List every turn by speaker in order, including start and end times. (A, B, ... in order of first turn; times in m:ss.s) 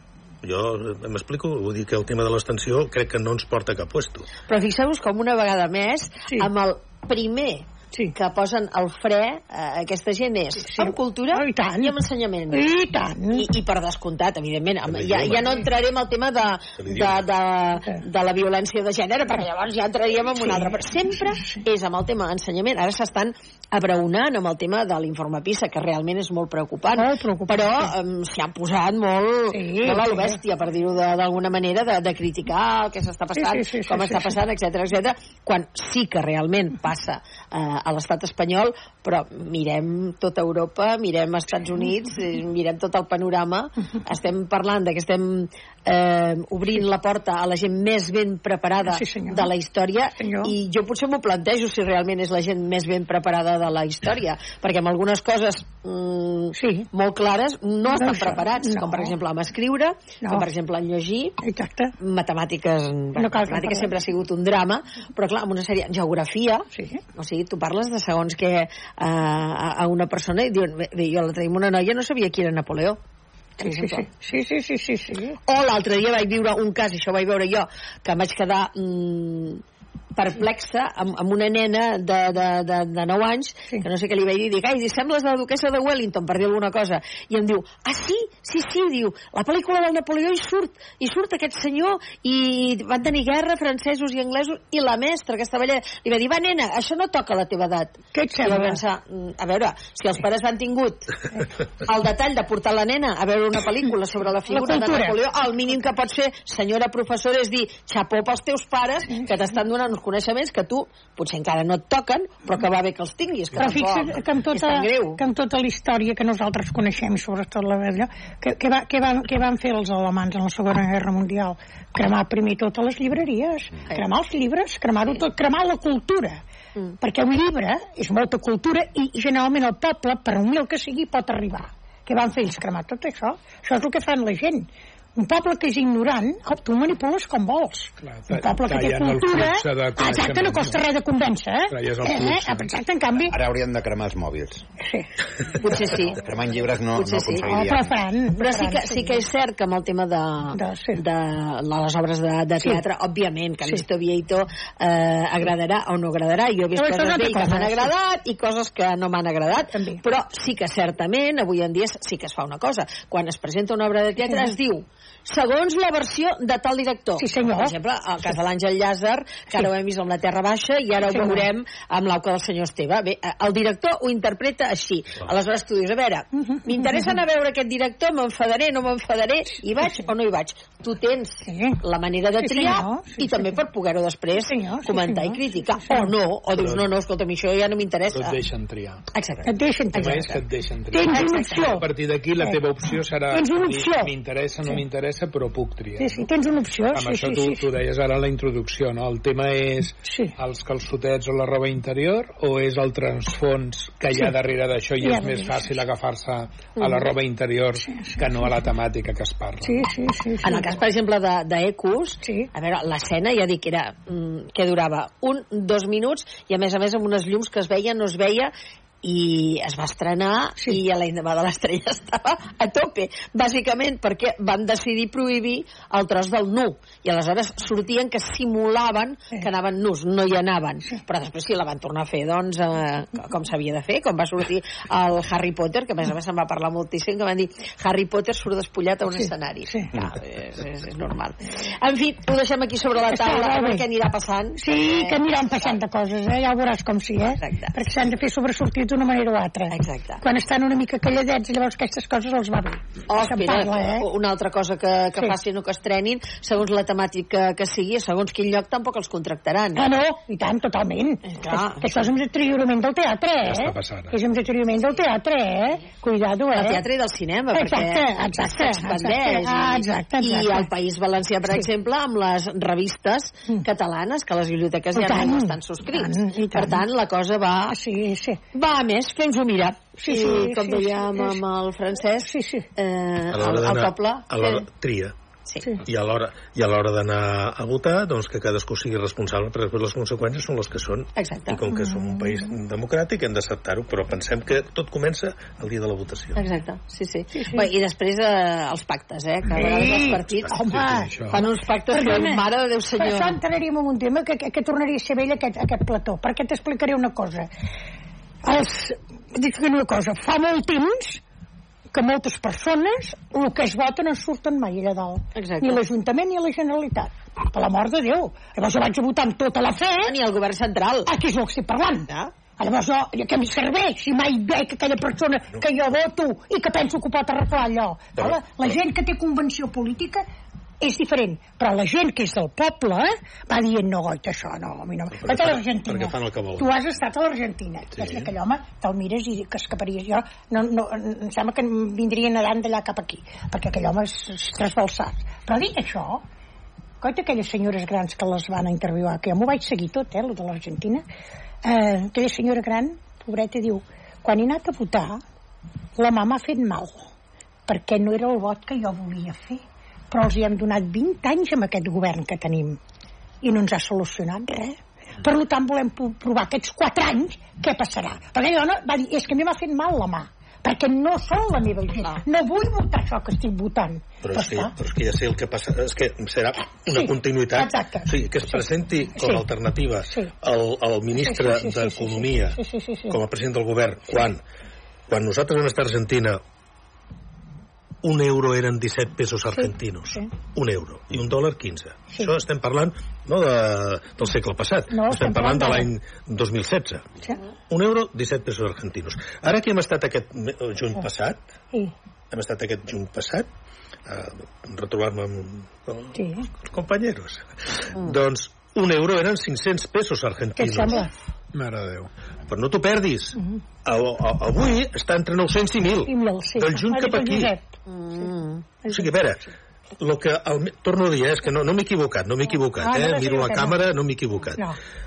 0:00.4-0:04.3 A
0:04.5-0:12.7 B
0:10.7-0:12.0 C
0:12.5-0:13.4 C
0:13.3-1:01.4 B
0:14.9-0:15.6 A
0:16.8-0:17.2 A
0:20.4-0:21.6 C
0:27.0-0:27.9 C
0:29.5-0:30.4 C
0:33.4-0:34.3 C
0:48.9-0:49.5 C
0:50.2-0:50.5 C
0:56.6-0:56.9 C
0:57.9-0:59.1 C
1:01.4-1:01.9 C
1:02.0-1:13.0 B
1:03.2-1:03.9 C
1:06.7-1:07.0 C
1:13.6-1:14.0 B
1:13.6-1:15.4 C
1:15.5-1:19.6 B
1:20.1-1:41.1 B
1:38.1-1:38.8 C
1:41.8-1:55.2 B
1:44.5-1:45.2 C
1:53.6-2:06.4 C
2:07.0-2:23.4 C
2:18.0-2:20.8 D
2:21.7-2:22.7 D
2:23.3-2:24.6 E
2:24.8-2:25.1 C
2:25.6-2:26.2 B
2:25.9-2:28.0 E
2:26.9-2:27.5 B
2:27.5-2:29.2 C
2:28.4-3:08.4 B
2:30.5-2:31.0 C
2:36.8-2:37.9 C
2:39.7-2:40.0 C
2:44.2-2:44.5 C
2:47.2-2:47.8 C
2:51.1-2:51.4 C
2:56.4-2:57.1 C
3:01.4-3:01.8 C
3:02.4-3:03.6 C
3:04.3-3:06.1 C
3:06.6-3:06.8 D
3:08.1-3:09.0 D
3:09.1-3:10.3 B
3:09.4-3:10.3 C
3:10.0-3:16.3 D
3:10.9-3:11.9 C
3:11.0-3:11.6 B
3:13.3-3:14.1 C
3:16.0-3:17.6 C
3:16.9-3:29.9 D
3:20.1-3:20.3 C
3:25.0-3:25.7 C
3:29.6-3:30.7 C
3:30.4-3:38.5 B
3:32.2-3:32.5 C
3:39.0-4:05.8 B
3:59.1-3:59.9 C
4:03.0-4:03.8 C
4:04.6-4:14.0 C
4:07.3-4:07.8 B
4:09.7-4:10.2 B
4:13.1-4:19.9 B
4:19.8-4:26.8 C
4:21.2-4:22.0 B
4:23.4-4:24.1 D
4:26.5-4:37.8 B
4:27.5-4:30.7 C
4:34.9-4:36.8 C
4:37.7-4:38.4 C
4:38.5-4:44.6 B
4:40.0-4:41.4 C
4:42.2-4:42.7 C
4:43.3-4:45.1 A
4:45.5-4:45.8 B
4:45.8-4:56.4 A
4:51.2-4:51.6 B
4:51.7-4:52.5 C
4:56.4-5:00.7 B
4:57.4-4:57.7 C
4:59.5-5:01.2 C
5:00.5-5:01.4 D
5:01.3-5:03.3 B
5:01.9-5:02.4 C
5:03.0-5:07.5 C
5:08.4-5:11.2 C
5:11.9-5:20.1 C
5:15.3-5:15.8 B
5:20.0-5:21.1 B
5:21.0-5:30.2 C
5:30.8-5:46.2 C
5:35.1-5:36.7 A
5:37.9-5:38.3 A
5:47.0-5:51.0 C
5:51.6-5:55.2 C
5:56.0-5:57.1 C
5:57.7-6:02.8 C
6:03.4-6:14.7 C
6:14.2-6:24.4 A
6:16.8-6:19.4 C
6:21.2-6:23.2 C
6:25.1-6:26.4 A
6:28.0-6:37.1 A
6:29.5-6:30.3 C
6:34.9-6:35.9 C
6:37.7-6:41.4 A
6:42.3-6:43.5 A
6:44.1-6:51.1 A
6:46.1-6:46.5 C
6:50.6-6:51.1 C
6:51.5-6:52.1 D
6:52.5-6:57.5 A
6:56.0-6:57.7 C
6:57.9-6:58.6 B
6:58.2-6:59.3 C
6:58.9-6:59.4 A
7:00.0-7:04.6 A
7:02.8-7:03.8 C